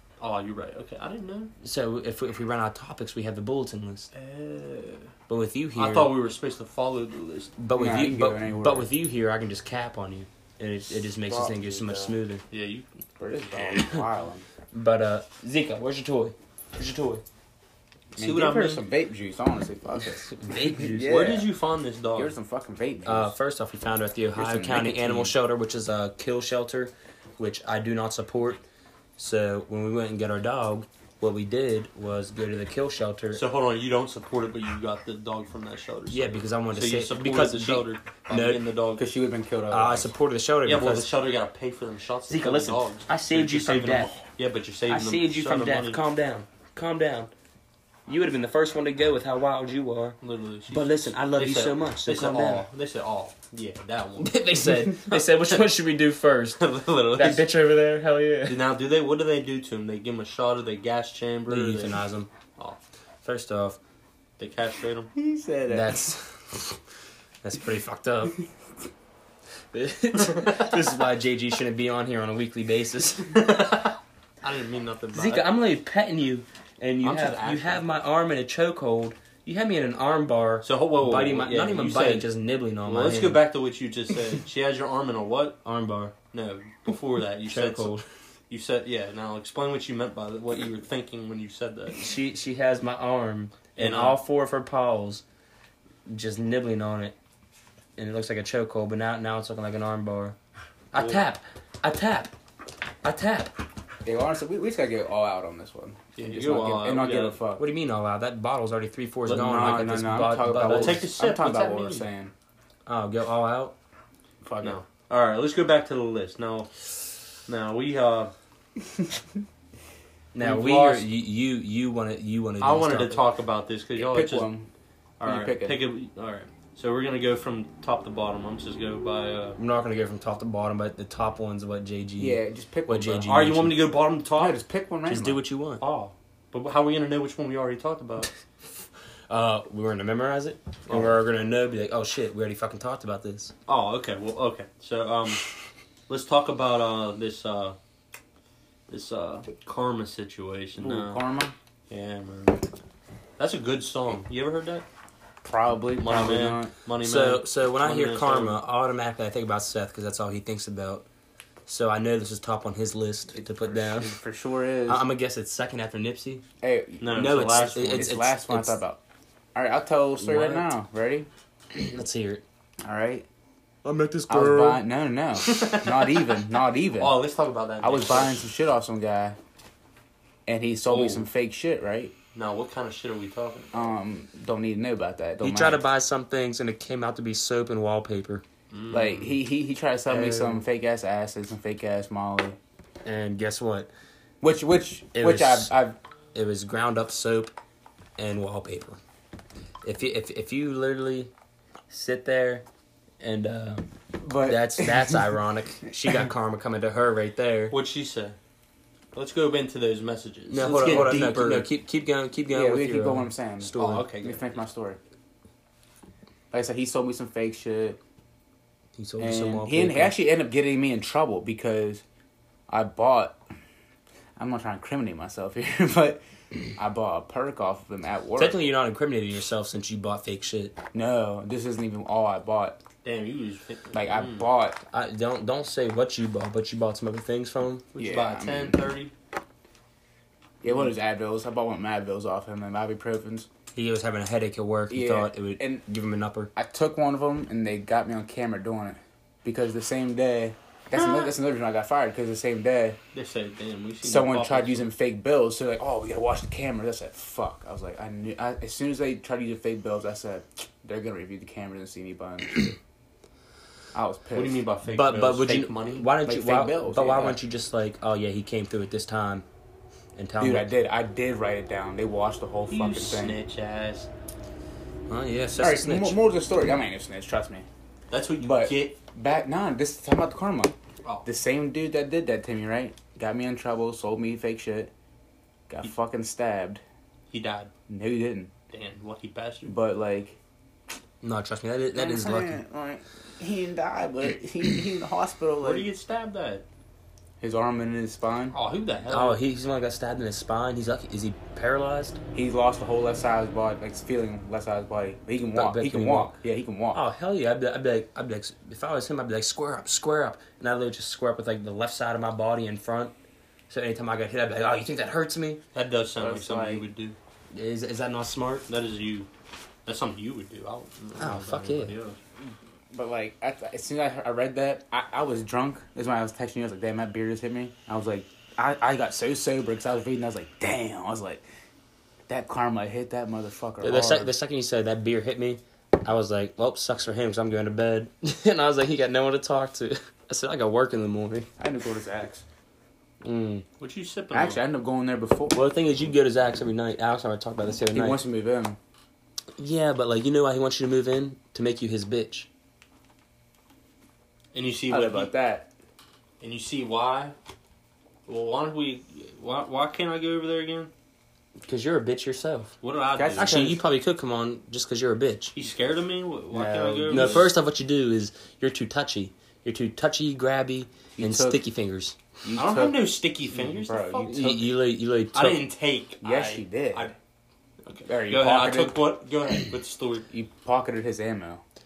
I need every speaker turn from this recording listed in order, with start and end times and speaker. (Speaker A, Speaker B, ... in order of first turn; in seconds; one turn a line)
Speaker A: 0.2-1.5
Speaker B: 1.6-4.1
Speaker A: 4.1-5.1
Speaker B: 5.3-6.1
Speaker A: 5.7-7.5
Speaker B: 7.6-12.4
Speaker C: 7.7-8.9
Speaker C: 11.2-12.1
Speaker A: 12.5-12.9
Speaker C: 13.2-14.4
Speaker B: 13.6-14.0
Speaker B: 14.7-17.2
Speaker C: 18.1-21.5
Speaker A: 18.2-18.8
Speaker B: 20.2-21.1
Speaker A: 21.0-22.3
Speaker C: 22.1-23.3
Speaker B: 23.0-28.6
Speaker C: 24.4-25.3
Speaker B: 29.2-33.4
Speaker A: 33.3-39.0
Speaker B: 36.1-38.6
Speaker C: 39.0-40.1
Speaker B: 39.7-41.1
Speaker A: 40.6-46.0
Speaker B: 42.3-44.2
Speaker B: 44.9-47.3
Speaker B: 48.1-50.2
Speaker A: 50.2-55.6
Speaker B: 50.7-52.7
Speaker B: 54.2-58.6
Speaker A: 56.6-57.5
Speaker A: 58.5-62.0
Speaker B: 61.5-62.3
Speaker B: 63.2-63.8
Speaker A: 64.4-65.1
Speaker C: 65.1-66.0
Speaker B: 65.7-66.8
Speaker B: 67.4-68.4
Speaker B: 69.7-73.5
Speaker A: 73.3-75.5
Speaker B: 75.1-83.4
Speaker A: 77.0-77.7
Speaker A: 80.6-82.3
Speaker A: 82.8-85.6
Speaker B: 85.6-86.1
Speaker A: 86.3-87.9
Speaker B: 87.5-88.0
Speaker A: 88.5-92.0
Speaker B: 92.0-95.2
Speaker A: 93.8-94.2
Speaker B: 96.1-97.2
Speaker B: 98.0-100.4
Speaker B: 100.9-102.3
Speaker A: 100.9-101.2
Speaker B: 103.0-103.5
Speaker C: 104.0-107.7
Speaker A: 106.2-107.4
Speaker B: 107.6-111.1
Speaker C: 109.2-112.3
Speaker A: 110.6-112.1
Speaker B: 112.8-113.7
Speaker C: 114.4-114.8
Speaker A: 114.6-118.3
Speaker B: 120.3-123.2
Speaker A: 120.4-121.0
Speaker A: 122.6-124.5
Speaker C: 124.0-124.7
Speaker A: 125.2-129.6
Speaker C: 125.2-125.8
Speaker B: 129.6-133.8
Speaker C: 132.2-133.3
Speaker A: 133.2-134.6
Speaker C: 134.4-135.4
Speaker B: 135.1-135.8
Speaker A: 135.8-138.3
Speaker B: 139.3-143.5
Speaker A: 143.7-145.4
Speaker A: 146.1-147.8
Speaker A: 148.9-151.2
Speaker C: 150.8-151.5
Speaker A: 151.9-152.7
Speaker A: 153.4-154.8
Speaker C: 155.4-156.7
Speaker A: 155.9-158.6
Speaker B: 157.0-161.1
Speaker B: 161.7-164.2
Speaker C: 163.3-165.1
Speaker B: 164.8-166.4
Speaker C: 166.6-169.0
Speaker A: 167.0-168.1
Speaker B: 167.1-168.8
Speaker C: 169.5-171.3
Speaker B: 170.2-170.7
Speaker B: 171.7-172.4
Speaker C: 172.8-173.2
Speaker B: 173.8-174.8
Speaker C: 174.3-177.2
Speaker A: 175.4-176.4
Speaker A: 176.9-178.4
Speaker C: 177.8-179.4
Speaker C: 180.5-182.1
Speaker A: 180.9-181.3
Speaker A: 182.3-183.9
Speaker C: 183.7-185.8
Speaker B: 185.4-188.4
Speaker A: 188.7-189.4
Speaker C: 188.9-192.6
Speaker B: 190.1-190.6
Speaker B: 193.0-193.9
Speaker C: 194.4-196.0
Speaker B: 195.1-195.7
Speaker B: 196.3-197.5
Speaker B: 198.2-199.0
Speaker B: 199.8-201.3
Speaker B: 201.9-202.6
Speaker B: 203.2-207.7
Speaker C: 204.2-205.3
Speaker A: 207.7-208.4
Speaker A: 209.1-211.6
Speaker B: 210.5-214.1
Speaker C: 210.6-211.6
Speaker C: 212.5-215.0
Speaker A: 213.8-214.6
Speaker C: 216.5-218.0
Speaker B: 219.0-220.1
Speaker C: 219.2-222.0
Speaker C: 222.7-223.4
Speaker C: 224.4-228.6
Speaker B: 228.4-230.8
Speaker C: 230.9-232.8
Speaker A: 233.0-234.5
Speaker C: 233.9-234.8
Speaker B: 234.9-237.9
Speaker A: 237.9-239.1
Speaker C: 238.0-238.8
Speaker C: 240.6-243.5
Speaker B: 243.7-246.5
Speaker C: 244.9-245.8
Speaker C: 246.6-253.0
Speaker A: 253.1-254.9
Speaker C: 254.0-262.7
Speaker C: 263.9-264.6
Speaker A: 264.3-266.1
Speaker B: 264.9-269.4
Speaker C: 266.2-267.4
Speaker B: 270.1-270.7
Speaker C: 270.4-273.4
Speaker A: 272.7-274.1
Speaker B: 275.1-276.2
Speaker C: 275.6-277.6
Speaker A: 278.1-279.0
Speaker C: 278.4-284.9
Speaker C: 285.7-286.8
Speaker A: 287.3-287.7
Speaker C: 287.9-288.5
Speaker A: 288.7-289.7
Speaker C: 289.6-290.4
Speaker B: 291.2-292.6
Speaker C: 291.9-295.9
Speaker A: 295.6-296.6
Speaker C: 297.4-298.5
Speaker A: 298.5-299.4
Speaker B: 299.1-302.2
Speaker C: 302.3-307.0
Speaker B: 305.5-306.4
Speaker B: 306.9-313.1
Speaker B: 313.7-315.6
Speaker A: 315.7-317.1
Speaker C: 316.2-316.8
Speaker B: 317.5-318.7
Speaker A: 318.7-319.3
Speaker A: 319.9-322.2
Speaker B: 321.2-321.9
Speaker C: 322.9-331.4
Speaker C: 332.3-334.3
Speaker B: 333.8-341.5
Speaker C: 341.6-342.4
Speaker B: 343.2-343.6
Speaker A: 343.8-344.6
Speaker C: 344.3-345.6
Speaker B: 345.5-348.2
Speaker C: 347.9-348.8
Speaker B: 349.6-352.5
Speaker A: 354.5-355.3
Speaker C: 354.9-355.7
Speaker A: 356.4-357.3
Speaker A: 358.3-360.9
Speaker B: 361.6-362.8
Speaker A: 362.8-363.6
Speaker C: 363.1-363.8
Speaker B: 363.4-365.5
Speaker A: 365.5-367.5
Speaker C: 366.5-367.5
Speaker B: 367.1-372.2
Speaker C: 371.2-371.6
Speaker C: 372.4-374.7
Speaker A: 372.5-374.6
Speaker B: 374.2-375.7
Speaker A: 375.3-377.1
Speaker C: 376.2-377.1
Speaker A: 377.8-380.3
Speaker C: 378.1-379.0
Speaker C: 380.3-381.6